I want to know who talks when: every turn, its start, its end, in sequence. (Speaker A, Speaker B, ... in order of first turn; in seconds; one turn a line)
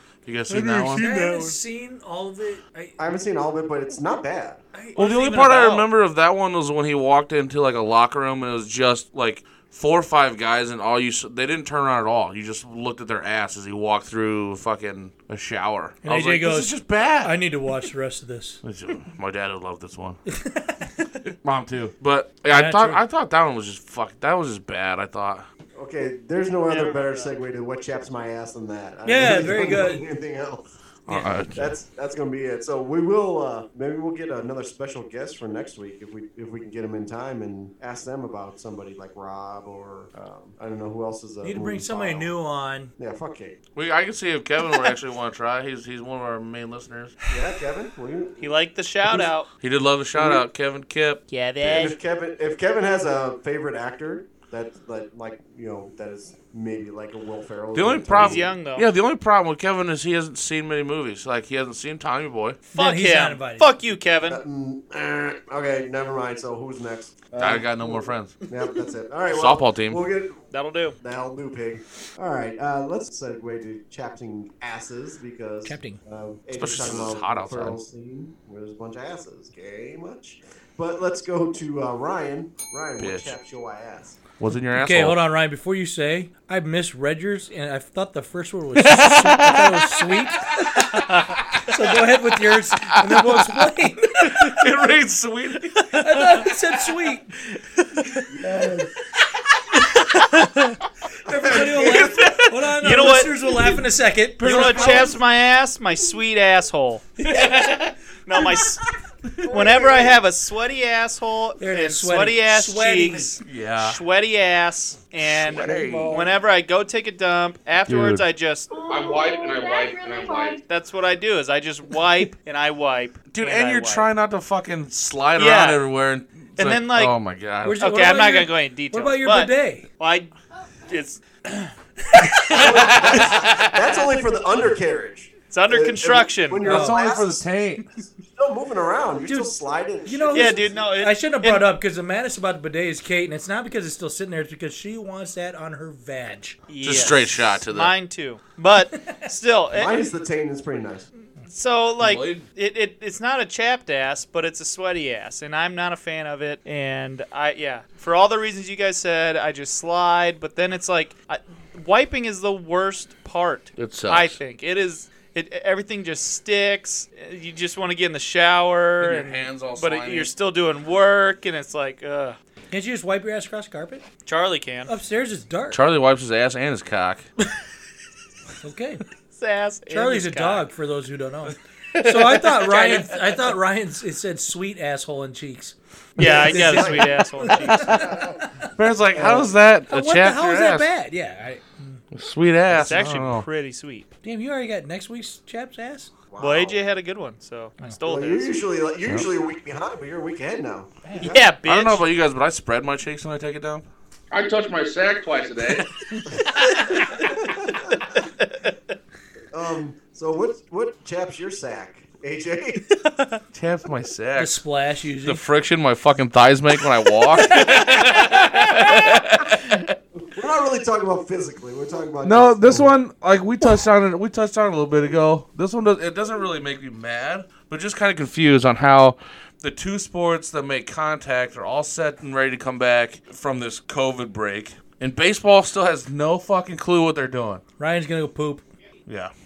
Speaker A: 0.2-1.6
Speaker B: 0.5-3.0
Speaker C: 3.0-4.6
Speaker B: 4.7-5.8
Speaker A: 5.0-17.4
Speaker D: 5.2-5.6
Speaker B: 16.0-18.6
Speaker A: 18.6-20.2
Speaker B: 20.3-21.2
Speaker A: 21.4-25.5
Speaker B: 22.5-23.0
Speaker C: 25.8-30.7
Speaker D: 26.7-27.3
Speaker B: 29.1-30.1
Speaker A: 31.1-31.7
Speaker B: 31.1-31.4
Speaker C: 31.6-42.3
Speaker B: 41.4-42.9
Speaker C: 43.0-43.6
Speaker A: 43.8-47.1
Speaker C: 47.3-48.5
Speaker D: 48.4-49.5
Speaker A: 49.6-51.8
Speaker C: 50.1-50.5
Speaker D: 51.3-52.0
Speaker C: 51.6-58.5
Speaker A: 57.8-62.6
Speaker D: 58.1-58.9
Speaker B: 62.7-63.7
Speaker D: 62.7-64.4
Speaker C: 64.2-84.2
Speaker A: 67.4-68.3
Speaker A: 69.3-70.0
Speaker D: 70.5-71.0
Speaker B: 75.7-76.0
Speaker A: 76.5-77.8
Speaker A: 83.0-83.3
Speaker A: 84.4-85.2
Speaker B: 84.7-91.0
Speaker B: 91.6-94.7
Speaker A: 92.8-93.5
Speaker A: 94.3-96.0
Speaker B: 95.9-97.3
Speaker C: 98.3-98.9
Speaker D: 100.2-100.7
Speaker B: 101.2-105.2
Speaker C: 101.3-102.3
Speaker A: 101.6-102.5
Speaker D: 102.8-103.4
Speaker D: 104.4-107.1
Speaker A: 104.4-105.2
Speaker B: 107.2-107.7
Speaker A: 107.3-107.9
Speaker D: 108.3-108.9
Speaker D: 109.5-118.7
Speaker C: 109.5-110.1
Speaker B: 111.6-113.4
Speaker A: 113.4-114.0
Speaker A: 115.2-116.2
Speaker C: 115.7-116.2
Speaker A: 117.9-118.2
Speaker E: 118.7-120.6
Speaker D: 120.7-124.1
Speaker A: 123.3-127.8
Speaker D: 125.4-125.9
Speaker D: 126.6-127.2
Speaker B: 127.6-129.9
Speaker D: 127.8-130.3
Speaker E: 130.6-131.0
Speaker D: 130.9-131.7
Speaker D: 132.5-133.8
Speaker C: 132.5-137.5
Speaker D: 135.5-136.7
Speaker A: 136.6-137.9
Speaker B: 136.7-137.0
Speaker C: 138.3-140.9
Speaker B: 139.3-146.6
Speaker D: 140.3-141.7
Speaker D: 146.7-150.1
Speaker A: 146.8-147.9
Speaker C: 149.7-151.1
Speaker D: 151.5-172.4
Speaker A: 152.0-152.4
Speaker A: 163.8-164.4
Speaker A: 169.0-170.3
Speaker B: 172.7-174.1
Speaker D: 174.2-174.9
Speaker B: 174.9-175.8
Speaker A: 175.7-177.3
Speaker B: 178.6-179.0
Speaker D: 179.3-180.7
Speaker B: 179.9-188.7
Speaker D: 182.5-183.3
Speaker D: 186.2-188.1
Speaker C: 186.2-188.4
Speaker A: 188.8-190.9
Speaker C: 189.1-189.6
Speaker B: 189.9-192.0
Speaker A: 192.1-193.5
Speaker D: 192.7-194.1
Speaker B: 194.2-196.1
Speaker C: 196.3-196.8
Speaker D: 196.4-198.6
Speaker C: 198.1-201.5
Speaker B: 201.1-201.3
Speaker D: 201.2-202.1
Speaker A: 201.7-205.9
Speaker D: 206.6-207.3
Speaker C: 207.6-207.9
Speaker D: 208.4-208.7
Speaker C: 209.5-212.8
Speaker D: 213.1-213.4
Speaker A: 213.5-214.6
Speaker B: 214.4-215.4
Speaker A: 215.2-219.9
Speaker C: 220.2-223.0
Speaker A: 222.2-237.6
Speaker B: 237.8-238.6
Speaker A: 239.1-239.3